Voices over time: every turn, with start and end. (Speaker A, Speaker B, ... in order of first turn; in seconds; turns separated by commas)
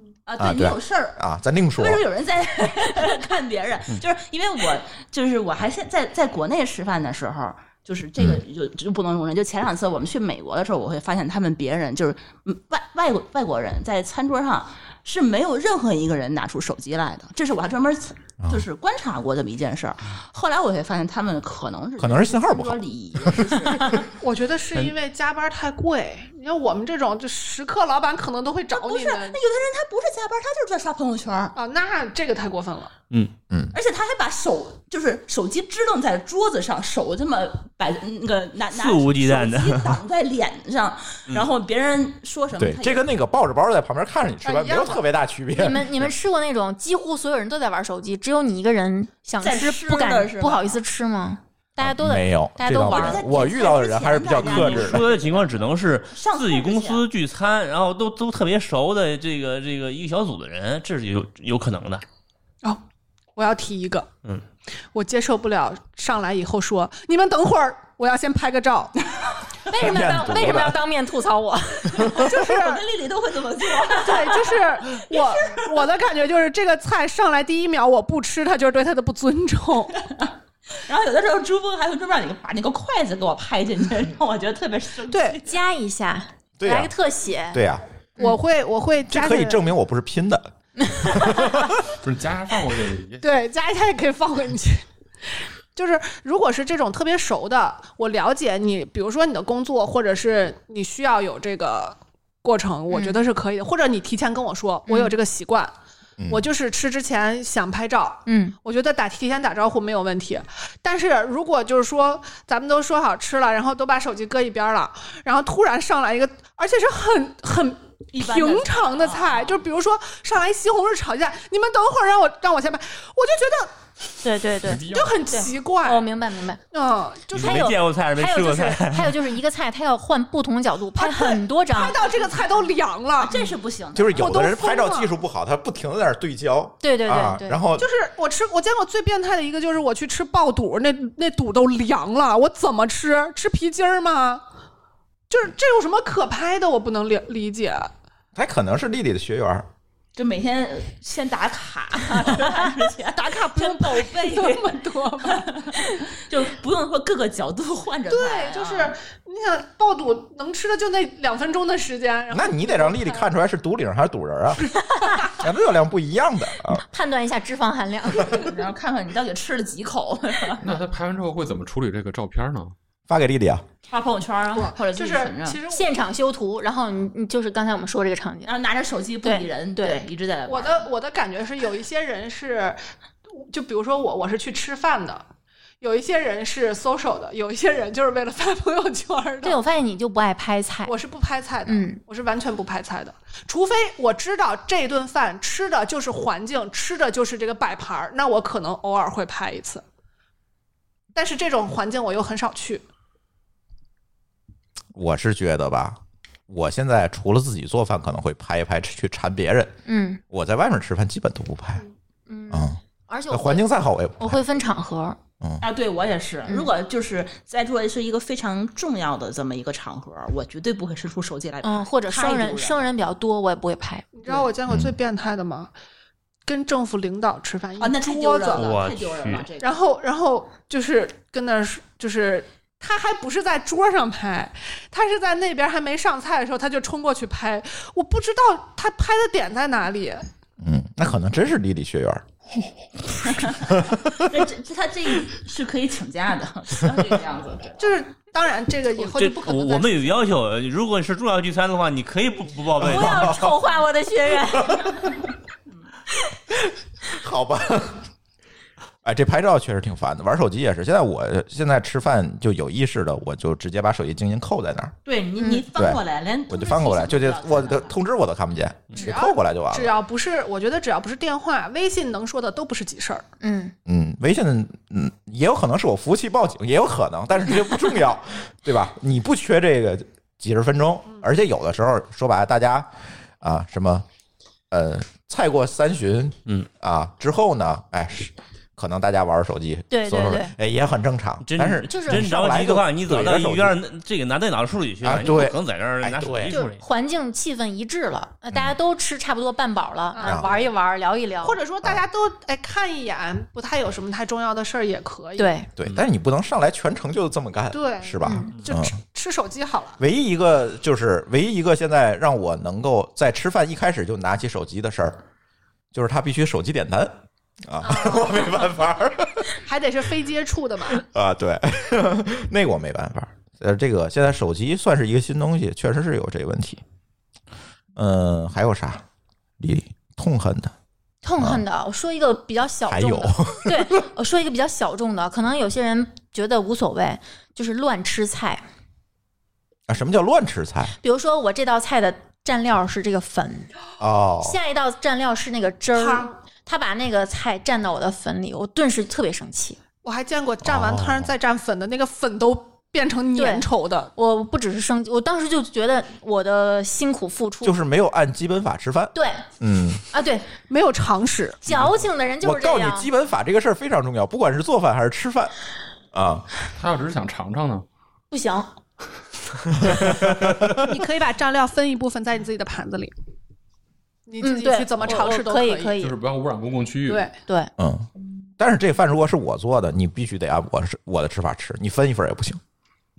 Speaker A: 0.3-1.2, Speaker B: 0.4-2.0, Speaker A: 1.8-24.1, Speaker B: 22.0-23.5, Speaker C: 23.9-29.4, Speaker A: 28.7-31.6, Speaker C: 31.6-32.9, Speaker A: 33.7-43.1, Speaker D: 38.7-40.0, Speaker B: 42.6-46.1, Speaker C: 44.4-45.0, Speaker E: 45.5-53.4, Speaker A: 49.4-50.8, Speaker B: 51.8-55.0, Speaker A: 52.7-55.5, Speaker D: 54.4-62.0, Speaker A: 56.1-57.0, Speaker C: 63.4-64.1, Speaker C: 64.9-69.1, Speaker E: 69.7-72.3, Speaker B: 69.7-70.8, Speaker C: 72.2-72.8, Speaker A: 72.2-75.8, Speaker C: 73.9-80.0, Speaker A: 80.0-85.6, Speaker E: 85.4-87.6, Speaker B: 86.6-86.9, Speaker B: 87.5-87.8, Speaker C: 88.2-89.6, Speaker B: 89.1-91.7, Speaker F: 92.0-93.3, Speaker C: 93.2-94.9, Speaker C: 95.8-105.7, Speaker E: 102.9-103.2, Speaker E: 104.9-105.2, Speaker B: 106.2-106.5, Speaker C: 106.3-123.8, Speaker E: 108.3-108.5, Speaker A: 118.1-119.5, Speaker E: 124.2-126.6, Speaker F: 124.6-125.2, Speaker C: 124.8-126.1, Speaker C: 126.7-127.7, Speaker D: 127.3-129.3, Speaker E: 127.3-132.0, Speaker C: 131.0-133.5, Speaker A: 133.2-134.3, Speaker B: 133.9-137.9, Speaker C: 134.2-135.1, Speaker E: 136.8-137.6, Speaker C: 137.8-144.4, Speaker C: 145.3-147.9, Speaker B: 148.3-149.7, Speaker A: 150.2-159.0, Speaker C: 153.2-156.0, Speaker C: 158.1-163.3, Speaker B: 162.3-164.8, Speaker E: 164.9-165.3, Speaker B: 165.3-166.8, Speaker E: 166.8-168.6, Speaker A: 168.3-170.7, Speaker F: 170.6-172.7, Speaker B: 173.1-173.6, Speaker A: 173.9-175.6, Speaker C: 174.5-175.9, Speaker E: 175.7-178.5, Speaker A: 178.4-180.8, Speaker E: 179.2-180.1, Speaker C: 180.5-185.2, Speaker C: 185.8-189.6, Speaker E: 189.4-190.9, Speaker C: 190.9-199.8, Speaker E: 191.7-192.0, Speaker C: 201.2-202.8, Speaker B: 204.9-209.8, Speaker E: 209.9-210.2, Speaker B: 210.3-211.8, Speaker E: 212.3-213.7, Speaker B: 212.5-212.8, Speaker B: 213.3-214.4, Speaker E: 214.2-215.2, Speaker A: 215.6-222.8, Speaker E: 221.6-224.2, Speaker C: 224.2-225.7, Speaker B: 224.7-224.9, Speaker C: 226.4-228.8, Speaker A: 227.8-229.8, Speaker D: 228.5-229.5, Speaker C: 229.6-240.3, Speaker B: 240.6-242.3, Speaker B: 243.3-244.2, Speaker A: 243.3-247.8, Speaker C: 247.8-250.2, Speaker D: 249.0-253.5, Speaker E: 252.8-255.2, Speaker B: 252.9-253.5, Speaker B: 257.1-258.0, Speaker B: 259.0-264.9, Speaker A: 265.1-267.9, Speaker E: 265.4-265.7, Speaker B: 265.8-269.9, Speaker C: 268.9-273.3, Speaker E: 273.4-273.7, Speaker B: 273.9-282.9, Speaker B: 283.4-284.1, Speaker B: 284.7-293.8, Speaker E: 289.9-290.5, Speaker D: 291.4-296.8, Speaker E: 291.9-292.2, Speaker B: 295.0-296.6, Speaker E: 296.5-301.6, Speaker C: 300.1-300.7, Speaker B: 300.2-300.5, Speaker C: 301.4-305.6, Speaker E: 305.4-305.7, Speaker B: 305.8-309.0, Speaker C: 307.7-310.0, Speaker E: 308.2-308.5, Speaker B: 310.0-315.2, Speaker B: 315.9-319.5, Speaker C: 317.8-318.5, Speaker C: 319.6-321.0, Speaker B: 321.0-326.8, Speaker B: 328.0-329.0, Speaker B: 329.6-330.7, Speaker E: 331.2-338.6, Speaker B: 332.9-334.0, Speaker B: 339.9-340.9, Speaker E: 341.0-343.7, Speaker B: 344.0-344.6, Speaker E: 344.4-349.8, Speaker C: 345.9-346.4, Speaker C: 350.0-354.1, Speaker B: 350.6-351.3, Speaker E: 353.4-357.8, Speaker B: 357.6-360.0, Speaker E: 359.1-359.4, Speaker E: 360.1-360.5, Speaker C: 360.7-361.7, Speaker E: 361.6-363.1, Speaker B: 362.4-365.5, Speaker B: 366.1-366.5, Speaker F: 366.8-367.9, Speaker E: 368.3-368.7, Speaker B: 369.8-370.9, Speaker C: 370.8-373.1, Speaker C: 374.3-376.0, Speaker E: 374.4-376.1, Speaker F: 376.0-377.3, Speaker C: 377.1-377.3, Speaker B: 377.8-378.1, Speaker B: 378.6-382.6